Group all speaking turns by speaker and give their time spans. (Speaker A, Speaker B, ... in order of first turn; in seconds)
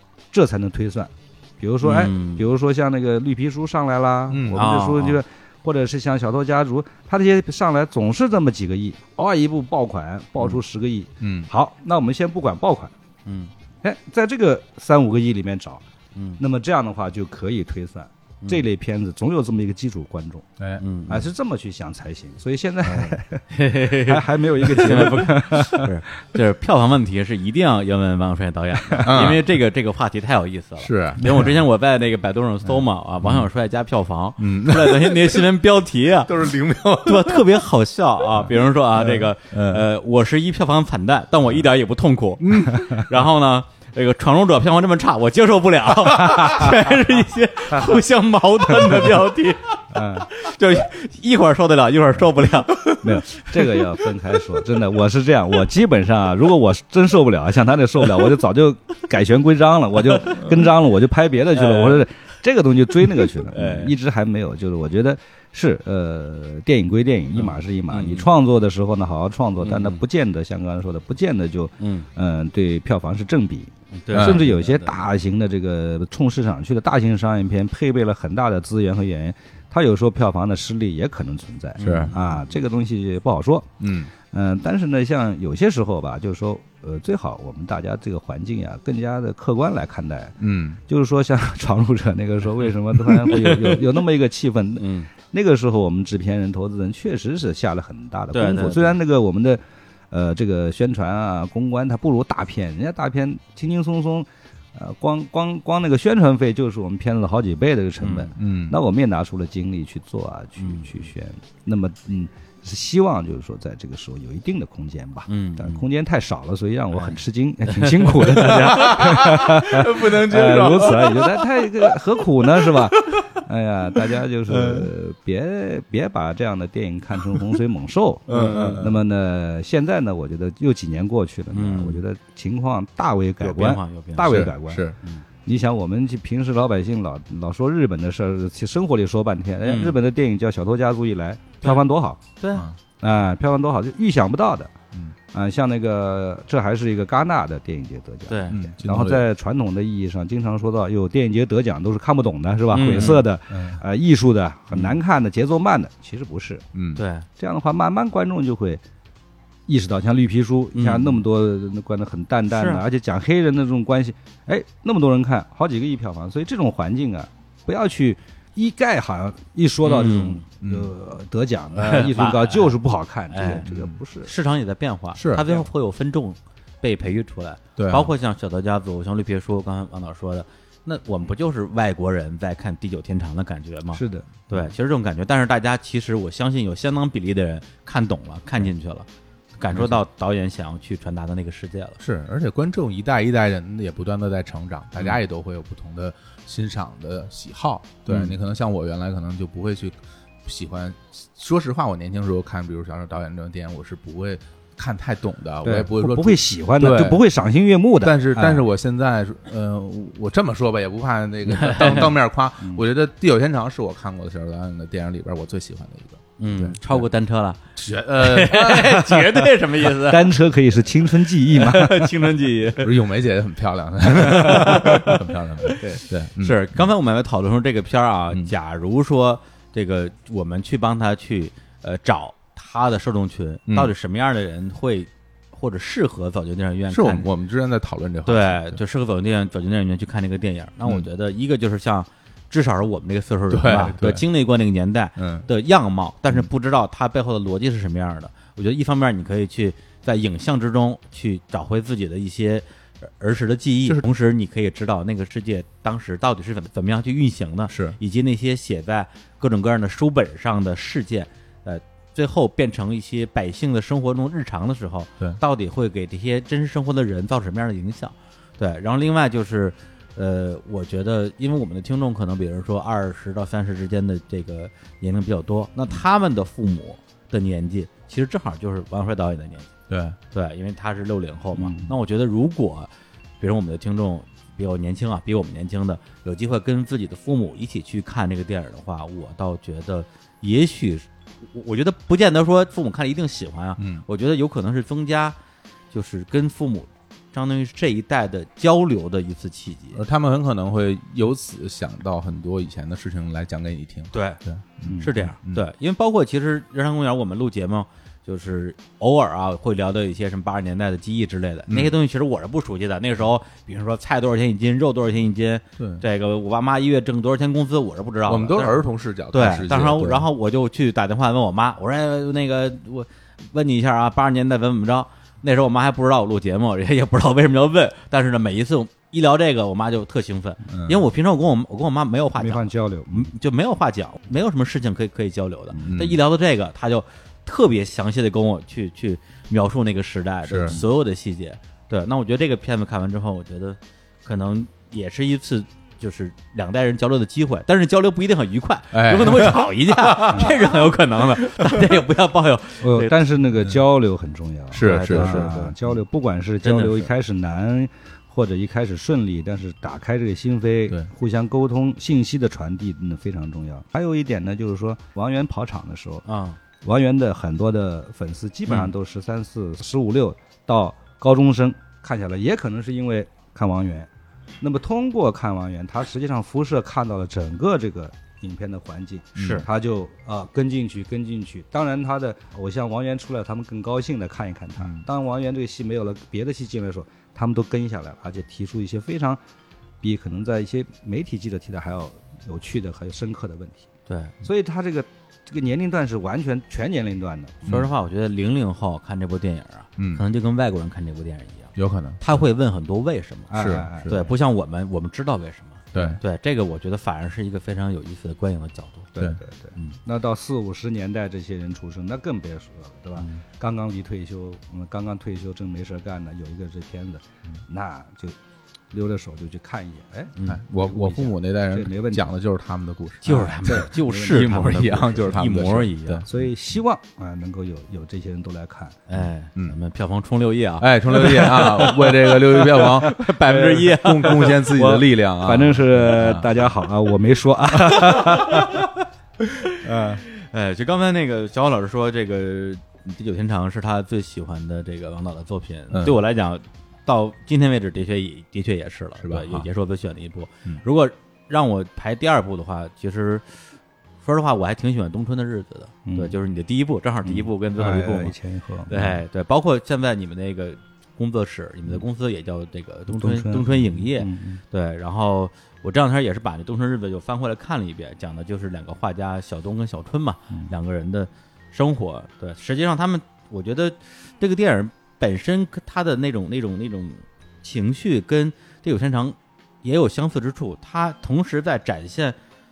Speaker A: 0.3-12.9, 13.8-15.8, 16.4-20.5, 21.1-25.9, 28.8-29.1, 49.9-50.3, 53.0-134.9, 135.4-142.2, 143.0-144.7, 145.3-156.7, 157.4-158.8, 159.7-174.3, 183.9-184.3, 205.6-208.6, 219.9-222.1, 304.8-305.1, 330.7-330.9, 332.4-333.3, 335.7-336.0, 352.8-366.2, 366.8-389.4, 390.0-393.9, 394.4-397.7, 403.5-404.3, 409.1-418.4, 418.9-422.3, 423.3-424.6, 426.3-429.0, 431.1-433.7, 434.3-438.7, 456.1-456.3, 457.2-459.1, 463.1-464.6
Speaker B: 1.8-2.4, 4.5-5.2, 13.3-13.5, 16.1-16.4, 20.8-21.3, 22.8-36.4, 37.0-54.4, 61.5-62.1, 63.2-63.9, 67.3-68.3, 69.6-70.0, 71.8-72.1, 73.9-75.0, 81.8-82.4, 94.8-95.1, 98.3-99.0, 108.0-108.3, 110.6-110.9, 115.3-115.8, 116.9-119.2, 128.3-128.8, 131.5-132.0, 133.4-135.2, 139.6-140.0, 142.4-142.7, 148.3-148.6, 152.7-153.3, 156.9-157.3, 160.7-161.2, 162.5-162.8, 169.8-170.4, 171.7-172.7, 173.3-173.7, 174.2-189.1, 189.6-192.0, 211.5-212.1, 216.4-217.6, 218.2-220.3, 221.5-222.9, 224.2-225.8, 226.4-237.3, 238.3-279.7, 280.3-295.4, 295.9-300.0, 304.1-304.4, 305.0-318.8, 319.3-353.1, 354.8-355.8, 356.6-357.1, 366.2-366.6, 379.4-379.6, 394.1-394.3, 397.6-409.1, 423.2-426.3, 429.1-434.8, 438.1-438.7, 440.3-453.4, 454.2-458.3, 458.9-482.4
Speaker C: 4.3-4.6, 11.2-11.5, 29.0-29.6, 30.8-31.5, 33.2-33.5, 34.4-35.5, 36.2-37.5, 38.4-39.8, 42.4-43.1, 74.1-74.5, 81.8-82.1, 83.8-84.1, 90.4-90.8, 108.3-108.8, 118.3-122.0, 122.7-123.2, 124.5-124.9, 128.3-129.0, 134.2-135.0, 148.5-149.2, 152.8-153.8, 156.7-157.0, 170.6-170.9, 173.7-174.0, 175.1-175.7, 177.8-178.1, 189.7-190.0, 192.0-207.2, 208.0-217.0, 217.8-219.2, 222.8-226.8, 236.9-238.8, 243.5-244.2, 245.2-245.5, 257.7-258.0, 279.9-280.2, 293.8-294.1, 299.9-305.6, 311.7-311.9, 318.3-320.3, 335.8-336.2, 340.5-340.8, 348.9-350.6, 351.6-351.8, 354.7-355.6, 379.4-379.6, 400.0-400.2, 401.8-402.2, 403.5-404.2, 405.9-406.2, 420.4-426.5, 430.8-436.5, 439.8-440.2, 445.9-446.2, 449.2-449.6